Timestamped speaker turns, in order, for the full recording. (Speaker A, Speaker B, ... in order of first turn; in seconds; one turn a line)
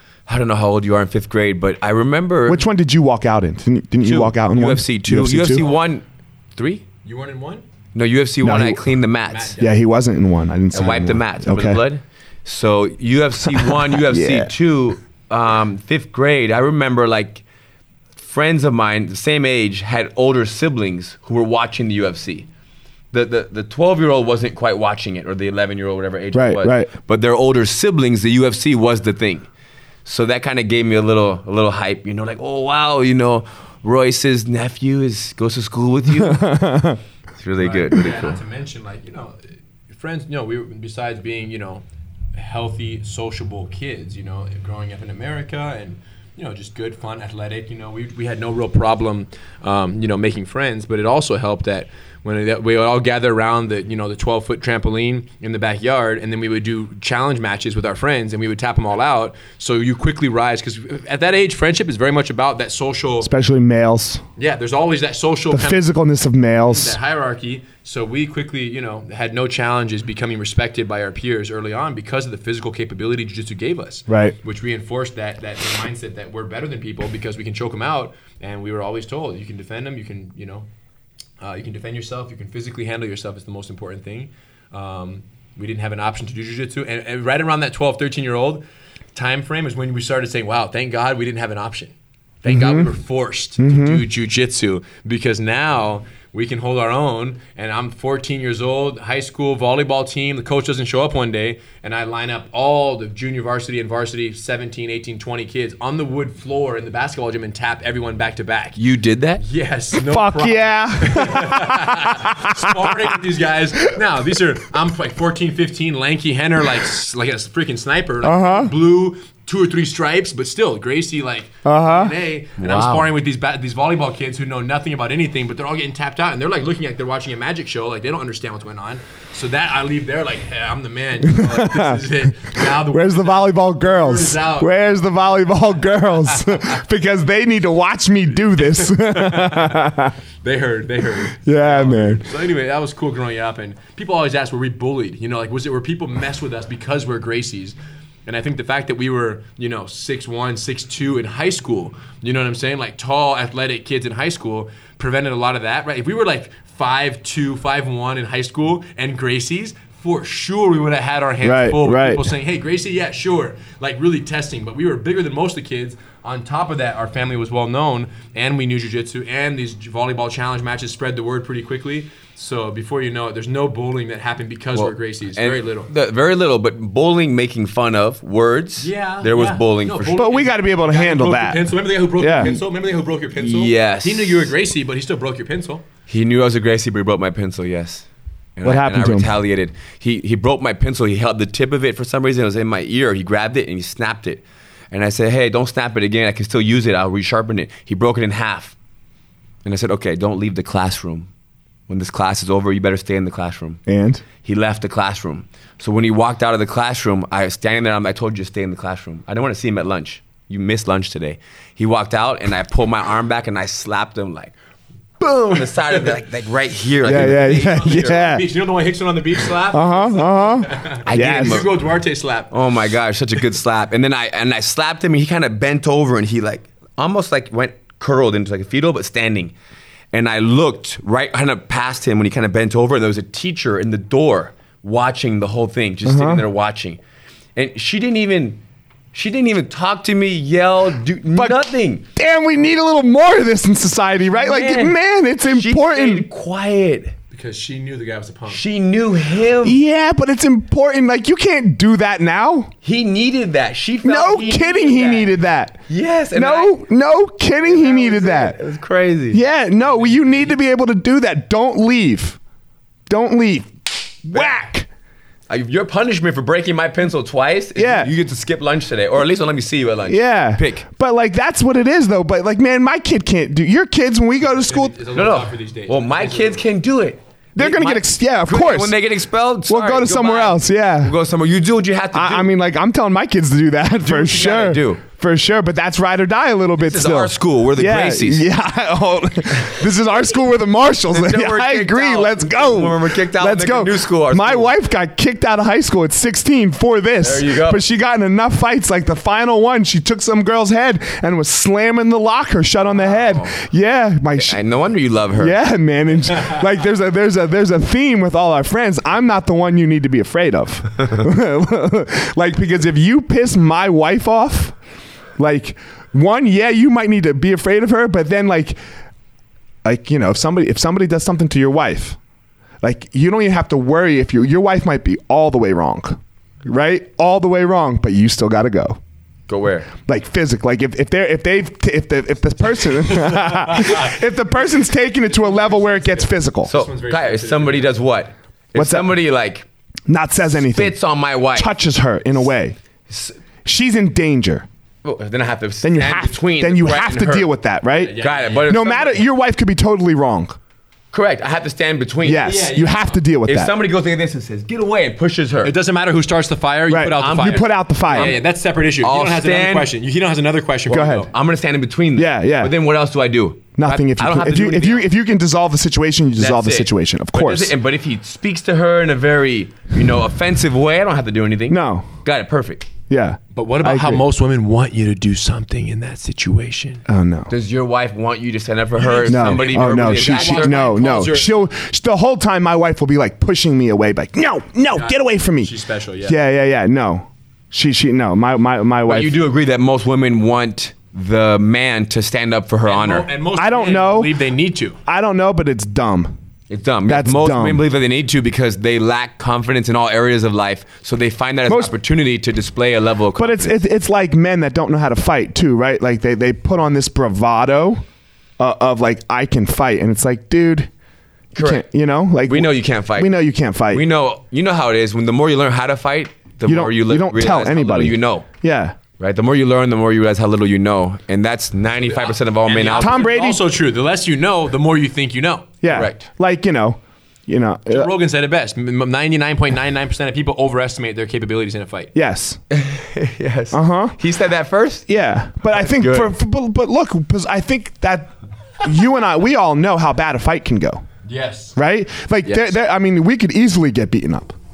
Speaker A: 0.3-2.6
Speaker B: 2.5-5.6
Speaker A: 4.0-6.0
Speaker A: 6.5-6.8
Speaker C: 7.0-7.6
Speaker A: 7.9-9.6
Speaker B: 8.4-8.8
Speaker C: 9.2-9.8
Speaker B: 9.6-11.8
Speaker A: 10.7-17.4
Speaker B: 13.5-14.5
Speaker A: 18.1-22.5
Speaker A: 23.1-29.5
Speaker B: 26.3-26.9
Speaker A: 30.0-36.6
Speaker B: 36.1-37.0
Speaker A: 37.4-38.4
Speaker C: 37.6-39.4
Speaker C: 39.9-41.8
Speaker C: 42.4-63.3
Speaker B: 63.2-64.2
Speaker C: 64.4-65.9
Speaker B: 65.5-67.0
Speaker C: 66.6-80.7
Speaker B: 74.1-74.3
Speaker C: 81.4-88.6
Speaker C: 89.1-108.8
Speaker B: 92.5-92.9
Speaker B: 93.6-94.0
Speaker A: 108.8-109.4
Speaker C: 109.4-135.1
Speaker B: 110.0-113.1
Speaker B: 118.2-118.7
Speaker B: 121.6-122.1
Speaker A: 122.6-123.1
Speaker B: 131.2-140.1
Speaker C: 136.2-136.5
Speaker C: 138.6-139.9
Speaker C: 140.4-175.9
Speaker B: 141.4-142.3
Speaker B: 161.4-162.2
Speaker A: 174.7-180.2
Speaker C: 178.8-185.8
Speaker B: 180.1-182.6
Speaker A: 183.4-184.5
Speaker A: 186.1-198.8
Speaker B: 188.6-189.3
Speaker A: 199.6-201.3
Speaker A: 201.9-203.8
Speaker B: 203.9-204.2
Speaker A: 204.4-214.5
Speaker A: 215.2-218.3
Speaker C: 217.0-222.5
Speaker B: 217.0-218.4
Speaker B: 219.7-221.6
Speaker A: 221.0-221.8
Speaker A: 222.5-229.5
Speaker A: 230.1-237.0
Speaker B: 236.0-236.4
Speaker A: 237.6-238.6
Speaker A: 239.1-242.0
Speaker B: 241.3-246.3
Speaker A: 244.3-247.1
Speaker C: 247.3-248.7
Speaker A: 248.5-249.8
Speaker B: 249.6-252.7
Speaker A: 252.8-255.3
Speaker B: 254.0-255.8
Speaker A: 255.9-256.8
Speaker B: 256.3-258.6
Speaker A: 257.6-259.4
Speaker B: 259.3-262.4
Speaker C: 259.9-260.5
Speaker B: 263.1-264.9
Speaker A: 265.5-270.8
Speaker B: 267.8-268.1
Speaker B: 270.1-275.0
Speaker C: 274.4-276.6
Speaker A: 275.1-282.5
Speaker B: 277.6-279.0
Speaker B: 279.6-281.1
Speaker B: 282.1-304.6
Speaker A: 284.0-285.0
Speaker A: 286.8-288.4
Speaker A: 291.1-294.7
Speaker A: 297.2-297.8
Speaker A: 302.9-303.5
Speaker A: 304.4-305.6
Speaker B: 305.3-314.8
Speaker B: 315.4-318.8
Speaker B: 319.8-322.2
Speaker B: 322.8-329.0
Speaker A: 329.5-329.9
Speaker B: 330.1-336.7
Speaker C: 333.1-337.9
Speaker A: 336.7-339.6
Speaker B: 338.8-339.1
Speaker B: 340.1-341.0
Speaker A: 340.5-341.7
Speaker B: 341.5-342.8
Speaker A: 343.1-343.4
Speaker B: 343.6-344.7
Speaker A: 345.0-347.5
Speaker B: 345.8-350.6
Speaker C: 348.0-348.8
Speaker A: 348.2-349.2
Speaker A: 351.1-352.4
Speaker B: 352.2-353.7
Speaker C: 352.4-353.2
Speaker A: 353.4-355.7
Speaker C: 355.6-361.3
Speaker B: 356.9-358.4
Speaker A: 357.1-358.4
Speaker A: 359.0-359.9
Speaker B: 360.9-361.3
Speaker A: 360.9-365.1
Speaker B: 362.1-362.7
Speaker B: 363.8-367.7
Speaker A: 366.4-372.9
Speaker B: 371.7-372.1
Speaker B: 373.1-374.2
Speaker C: 373.5-377.0
Speaker B: 377.1-377.5
Speaker A: 377.5-380.9
Speaker C: 378.9-381.5
Speaker B: 379.2-385.7
Speaker C: 384.9-386.4
Speaker B: 386.2-389.4
Speaker A: 389.1-393.3
Speaker C: 392.8-395.0
Speaker B: 393.6-394.3
Speaker B: 395.1-396.4
Speaker A: 396.7-403.8
Speaker B: 397.1-397.8
Speaker B: 401.7-401.9
Speaker B: 403.4-408.0
Speaker B: 408.6-410.9
Speaker A: 411.5-411.8
Speaker B: 411.6-414.0
Speaker A: 412.5-413.3
Speaker A: 413.9-418.4
Speaker B: 416.6-418.9
Speaker A: 419.2-423.3
Speaker C: 422.0-426.1
Speaker B: 423.0-423.6
Speaker B: 425.8-428.1
Speaker A: 425.9-426.2
Speaker C: 427.9-432.1
Speaker B: 432.1-432.6
Speaker A: 432.7-435.1
Speaker B: 433.7-434.2
Speaker B: 435.1-438.3
Speaker A: 435.7-436.3
Speaker B: 438.8-441.0
Speaker C: 441.2-441.7
Speaker B: 441.7-444.5
Speaker A: 442.4-442.7